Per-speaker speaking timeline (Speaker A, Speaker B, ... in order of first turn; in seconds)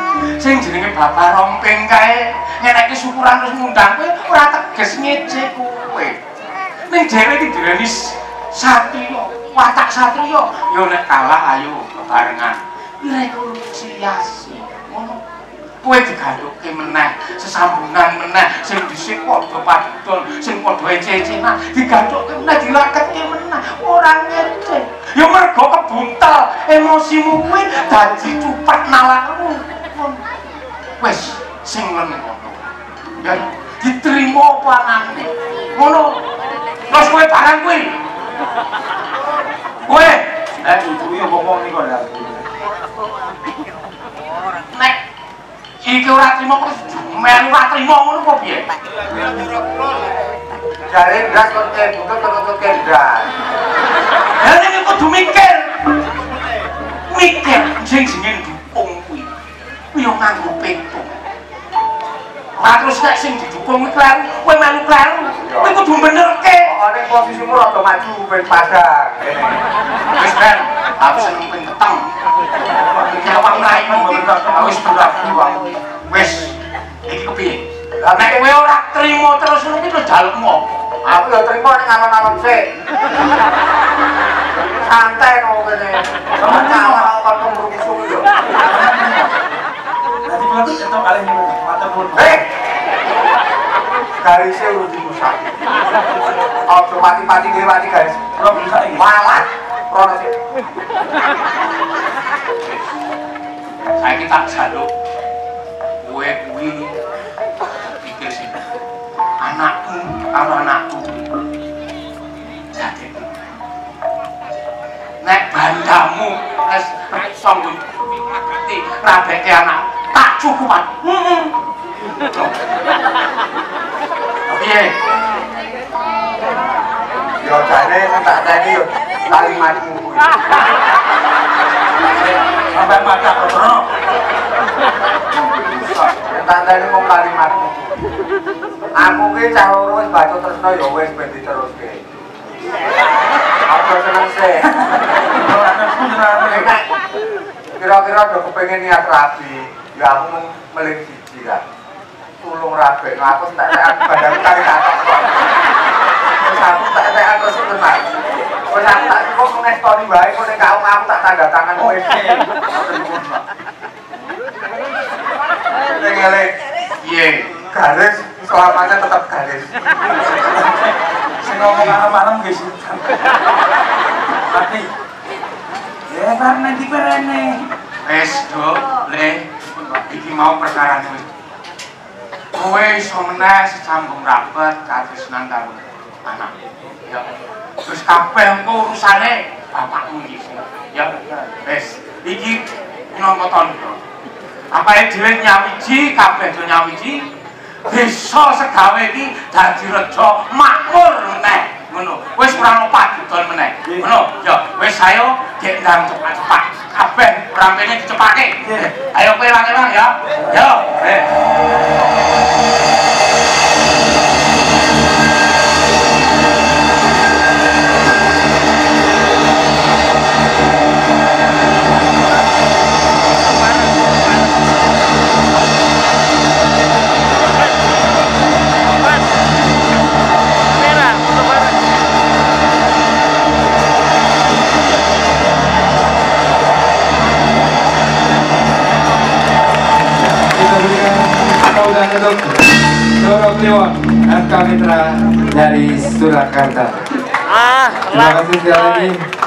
Speaker A: 0.4-6.2, 6.9-15.2, 15.8-30.2, 31.0-32.7, 33.2-36.2, 36.9-37.9, 39.9-40.8, 45.8-48.7, 54.4-55.7, 57.1-59.3, 59.9-61.1, 62.6-66.7, 70.2-72.1, 73.1-75.5, 76.1-80.6, 104.0-104.9, 106.0-106.9, 107.8-108.7, 109.4-111.3, 112.7-113.6, 115.2-121.0, 124.5-124.9, 167.0-167.5, 178.1-181.3, 182.5-187.3, 187.8-194.0, 194.7-197.2, 197.9-211.2
Speaker B: 40.6-42.4, 72.7-75.6, 86.4-87.1, 88.6-89.4, 90.3-92.4, 98.4-99.0, 121.0-121.5, 132.2-133.9, 135.6-136.1, 144.7-146.7, 161.8-163.4, 170.3-173.1, 174.5-174.9, 176.1-177.7, 203.8-204.1, 208.6-208.9
Speaker C: 50.9-53.3, 65.5-65.8, 66.7-69.6, 78.0-78.5, 81.0-82.7, 84.6-88.3, 92.2-92.4, 94.2-95.5, 96.7-98.2, 99.0-100.3, 127.4-130.3, 136.3-138.0, 139.0-142.0, 143.7-144.7, 146.5-146.8, 147.8-151.6, 152.4-155.5, 156.4-158.0, 158.7-162.4, 165.9-166.5, 167.7-169.7
Speaker D: 240.5-242.6, 243.2-247.0, 248.0-249.2